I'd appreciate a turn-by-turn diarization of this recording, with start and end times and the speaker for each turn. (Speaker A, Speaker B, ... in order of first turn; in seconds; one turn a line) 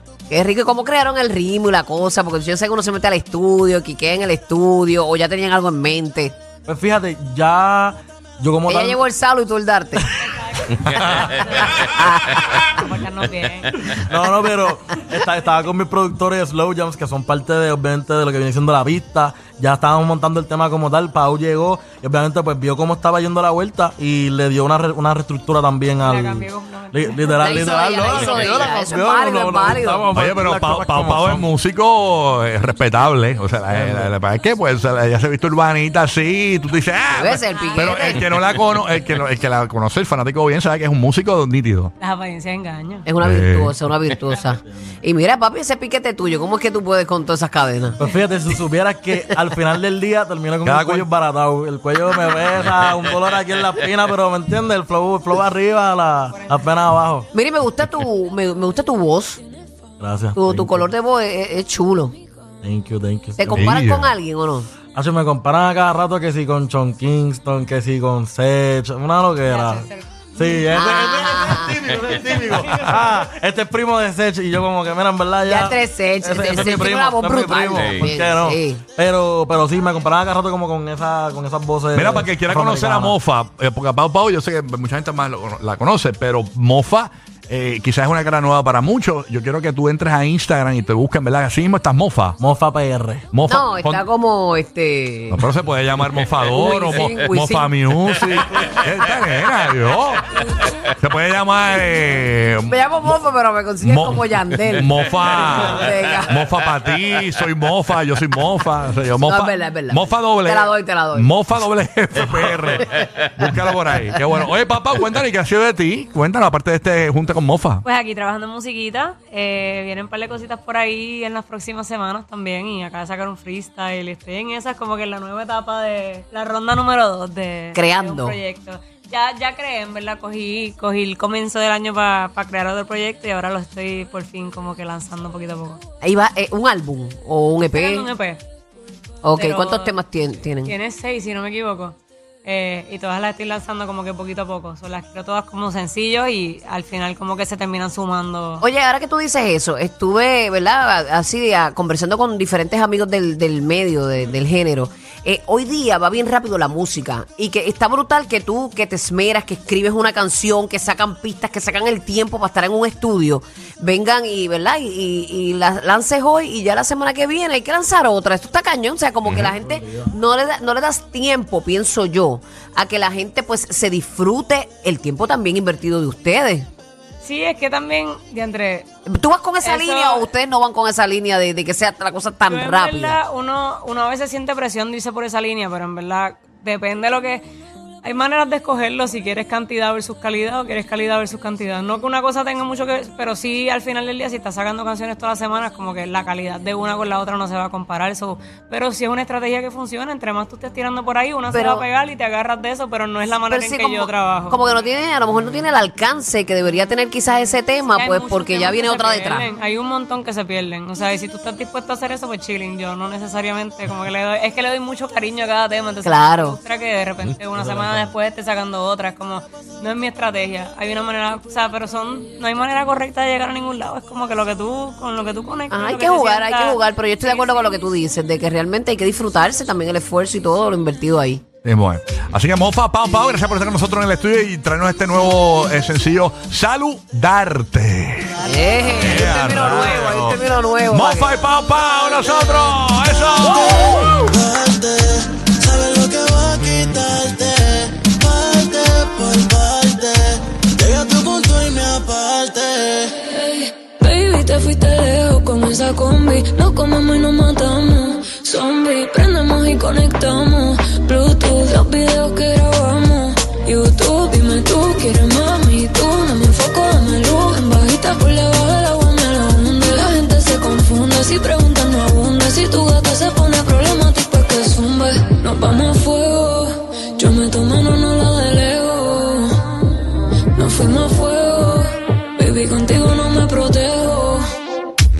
Speaker A: 0.3-6.4
Speaker B: 6.7-9.0
Speaker A: 8.7-10.1
Speaker C: 10.2-13.9
Speaker D: 10.8-11.4
Speaker E: 10.9-11.3
Speaker A: 11.8-12.6
Speaker B: 13.9-31.5
Speaker C: 25.9-28.9
Speaker A: 27.4-30.1
Speaker E: 30.1-41.9
Speaker B: 33.7-34.1
Speaker A: 37.1-38.2
Speaker C: 37.5-38.0
Speaker C: 42.0-43.0
Speaker A: 43.0-48.0
Speaker E: 43.2-43.8
Speaker B: 48.0-57.3
Speaker E: 50.6-51.1
Speaker C: 56.3-56.6
Speaker A: 57.3-59.4
Speaker B: 60.0-60.9
Speaker A: 60.4-62.1
Speaker B: 62.6-63.7
Speaker A: 63.4-64.7
Speaker E: 63.5-64.1
Speaker B: 64.9-83.2
Speaker C: 69.5-70.8
Speaker A: 70.7-71.8
Speaker A: 75.5-78.8
Speaker D: 77.7-78.1
Speaker E: 82.0-92.4
Speaker B: 92.4-93.3
Speaker E: 93.3-94.0
Speaker A: 93.5-95.5
Speaker E: 95.3-100.3
Speaker D: 96.1-96.5
Speaker A: 96.5-97.7
Speaker E: 101.0-103.2
Speaker A: 102.7-106.4
Speaker E: 103.8-117.8
Speaker A: 109.2-111.3
Speaker D: 113.0-113.3
Speaker C: 117.8-135.8
Speaker A: 127.7-128.4
Speaker A: 136.0-138.1
Speaker C: 137.7-138.4
Speaker A: 139.2-140.7
Speaker C: 139.3-140.0
Speaker C: 140.6-148.7
Speaker A: 148.6-176.7
Speaker B: 169.4-170.1
Speaker C: 177.2-178.8
Speaker A: 179.1-183.2
Speaker C: 179.6-180.3
Speaker C: 182.5-187.4
Speaker C: 188.0-204.8
Speaker A: 201.5-201.8
Speaker A: 203.5-209.4
Speaker C: 207.9-227.8
Speaker A: 216.0-216.6
Speaker B: 217.6-218.1
Speaker A: 225.7-231.4
Speaker E: 231.6-244.4
Speaker A: 238.4-241.4
Speaker D: 244.3-253.1
Speaker B: 248.9-249.4
Speaker F: 253.1-279.6
Speaker F: 280.6-284.4